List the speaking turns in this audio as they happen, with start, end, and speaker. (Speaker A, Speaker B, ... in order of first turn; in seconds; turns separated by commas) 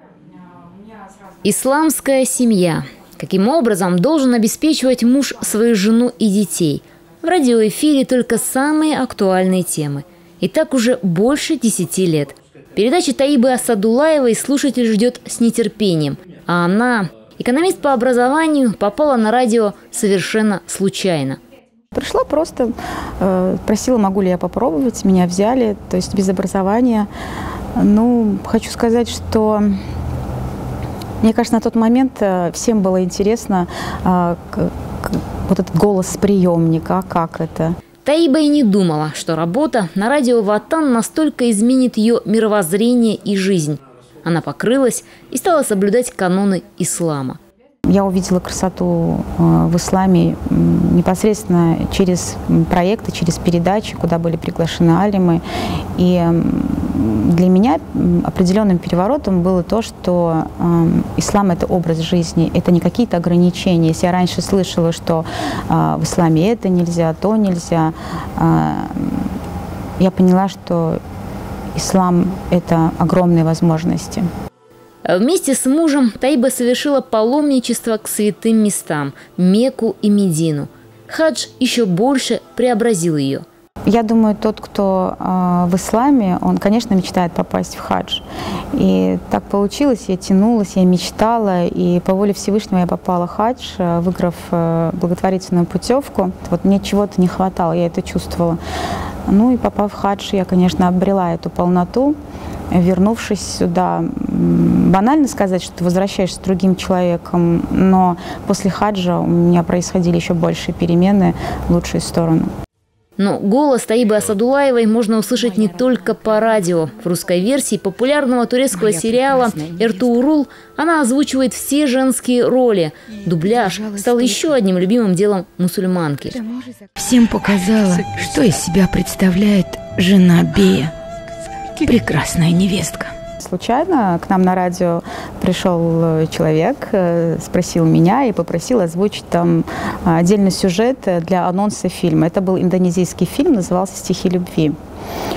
Speaker A: 1.4-21.4, Speaker B: 21.9-27.1, Speaker B: 27.8-29.7, Speaker B: 31.2-37.8, Speaker A: 38.0-47.4, Speaker B: 47.8-55.4, Speaker B: 56.0-69.3, Speaker B: 70.0-71.0, Speaker B: 71.7-74.2, Speaker A: 75.0-83.4, Speaker B: 83.9-98.6, Speaker B: 99.3-102.2, Speaker B: 102.7-112.5, Speaker A: 113.2-126.4, Speaker C: 118.8-119.8, Speaker C: 123.6-124.3, Speaker C: 126.4-130.9, Speaker C: 131.7-133.1, Speaker B: 133.4-144.8